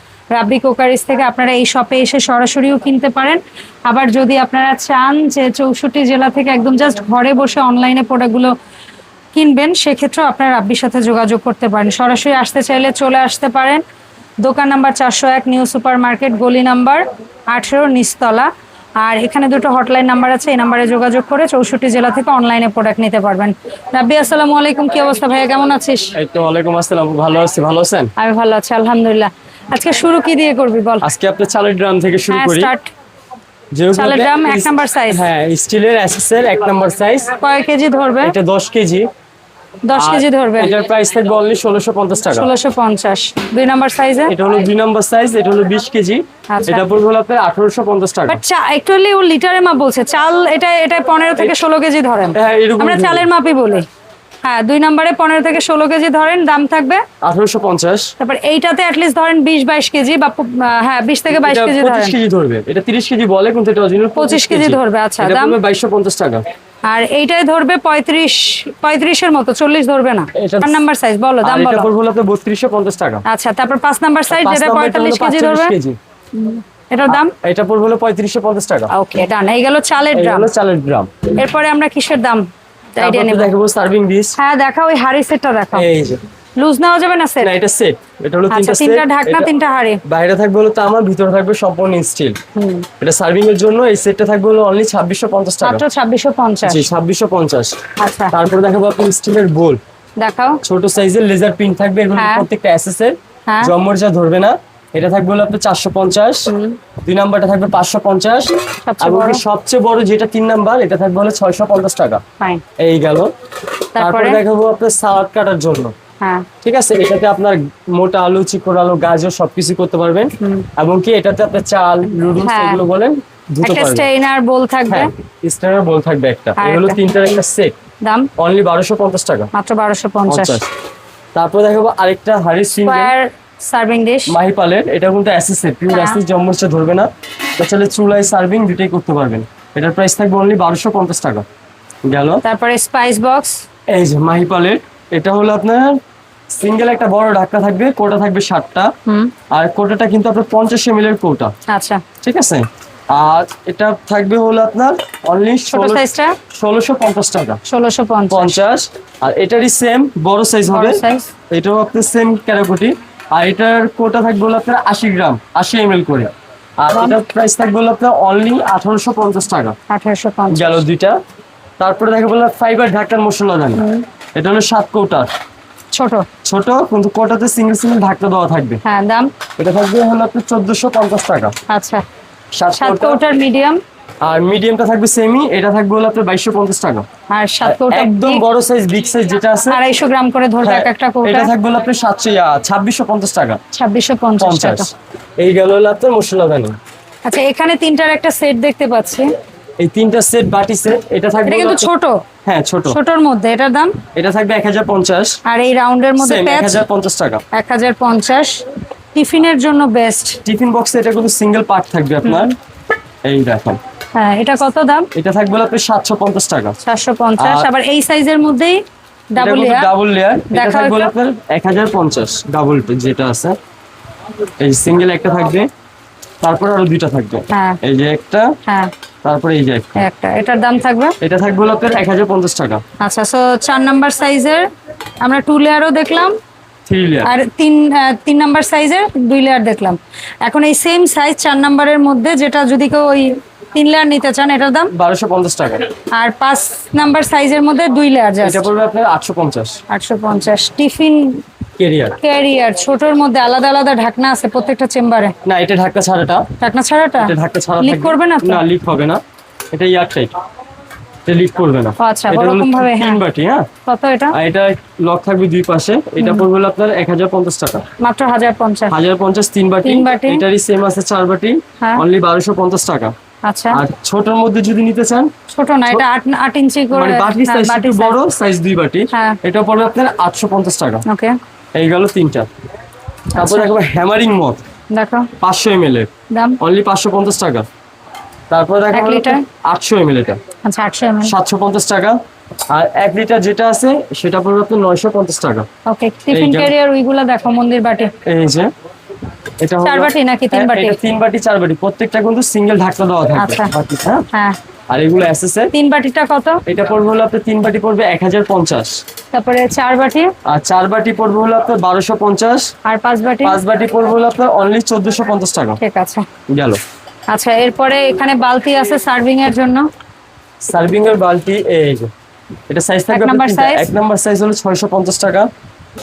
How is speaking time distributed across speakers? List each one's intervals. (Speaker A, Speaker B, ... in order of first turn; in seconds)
Speaker A: 0.3-8.5, 9.3-13.8, 14.4-26.1, 28.2-31.1, 32.3-32.9, 33.9-35.2, 37.4-38.3, 39.9-40.8, 42.3-44.3, 46.5-46.8, 48.3-53.9, 54.4-57.0, 58.2-62.1, 64.2-65.6, 66.9-71.9, 73.2-75.7, 76.3-77.3, 78.9-80.5, 81.3-83.5, 84.4-85.9, 86.6-87.5, 88.5-90.0, 92.5-92.9, 95.6-96.9, 98.0-98.3, 100.2-100.6, 102.2-102.5, 103.5-103.7, 106.5-106.8, 108.8-109.4, 114.0-114.4, 116.2-116.5, 120.4-120.7, 122.4-122.8, 123.6-125.1, 126.6-127.0, 128.0-128.3, 129.5-130.6, 132.8-134.3, 135.9-136.2, 142.4-143.6, 149.1-149.3, 151.7-152.0, 155.7-156.4, 157.7-158.5, 160.7-161.3, 169.9-170.8, 173.8-174.1, 175.9-176.3, 178.8-179.3, 181.7-182.0, 182.8-183.8, 187.3-188.4, 189.7-191.5, 193.7-194.9, 197.2-199.3, 201.4-202.2, 202.9-204.0, 205.4-206.8, 207.5-210.4, 212.2-212.5, 214.1-215.1, 216.8-219.9, 220.5-221.1, 227.5-227.8, 228.7-228.9, 230.0-231.2, 233.0-234.7, 235.2-236.3, 237.2-244.9, 246.1-248.7, 249.9-251.4, 252.2-255.3, 256.6-258.6, 262.0-263.2, 263.8-264.4, 266.2-266.4, 268.0-268.9, 269.8-270.4, 273.4-273.8, 275.5-278.2, 279.1-279.4, 281.1-281.4, 283.4-283.7, 284.9-285.3, 286.3-286.6, 288.9-289.4, 290.6-291.3, 295.9-298.1, 299.8-301.0, 303.4-303.7, 304.3-304.6, 305.7-306.6, 309.3-310.3, 312.9-313.6, 315.8-316.3, 317.3-319.9, 323.1-323.9
Speaker B: 26.1-28.1, 31.0-32.7, 33.7-37.3, 38.2-39.1, 39.9-42.5, 44.2-48.4, 52.3-53.3, 57.2-58.1, 61.3-66.4, 70.3-70.8, 71.4-73.2, 74.3-76.0, 77.1-78.9, 80.1-81.1, 83.0-84.3, 85.7-86.2, 87.4-89.5, 90.0-92.4, 93.0-95.8, 96.6-97.7, 98.3-99.8, 100.6-106.5, 107.0-112.2, 112.8-113.3, 114.0-115.9, 116.6-124.1, 124.9-127.8, 128.4-129.5, 130.3-130.7, 131.3-133.1, 134.3-141.4, 142.0-142.4, 143.9-146.0, 146.5-148.9, 149.5-151.5, 152.2-157.6, 158.3-169.7, 170.5-171.2, 171.8-173.8, 174.3-175.3, 176.4-178.8, 179.6-181.5, 182.5-183.2, 184.2-187.1, 187.6-189.8, 190.6-193.6, 194.4-196.8, 199.8-201.9, 202.4-203.0, 204.1-205.4, 206.2-207.4, 210.4-212.5, 213.2-213.8, 215.1-216.8, 217.4-217.7, 219.4-223.6, 224.6-225.7, 226.4-228.5, 229.2-230.0, 231.2-232.8, 236.9-237.3, 244.9-245.9, 248.4-249.8, 251.8-252.2, 255.4-256.5, 257.2-259.2, 259.7-260.3, 261.2-263.7, 264.3-267.8, 268.9-273.1, 273.7-275.3, 276.9-281.0, 281.7-282.5, 283.3-284.6, 285.4-287.6, 288.5-290.4, 291.2-292.2, 292.7-295.6, 296.3-296.7, 298.2-298.7, 299.6-304.2, 304.9-305.7, 306.6-309.0, 310.4-312.7, 313.4-315.8, 316.5-316.8, 320.6-322.1, 322.7-325.5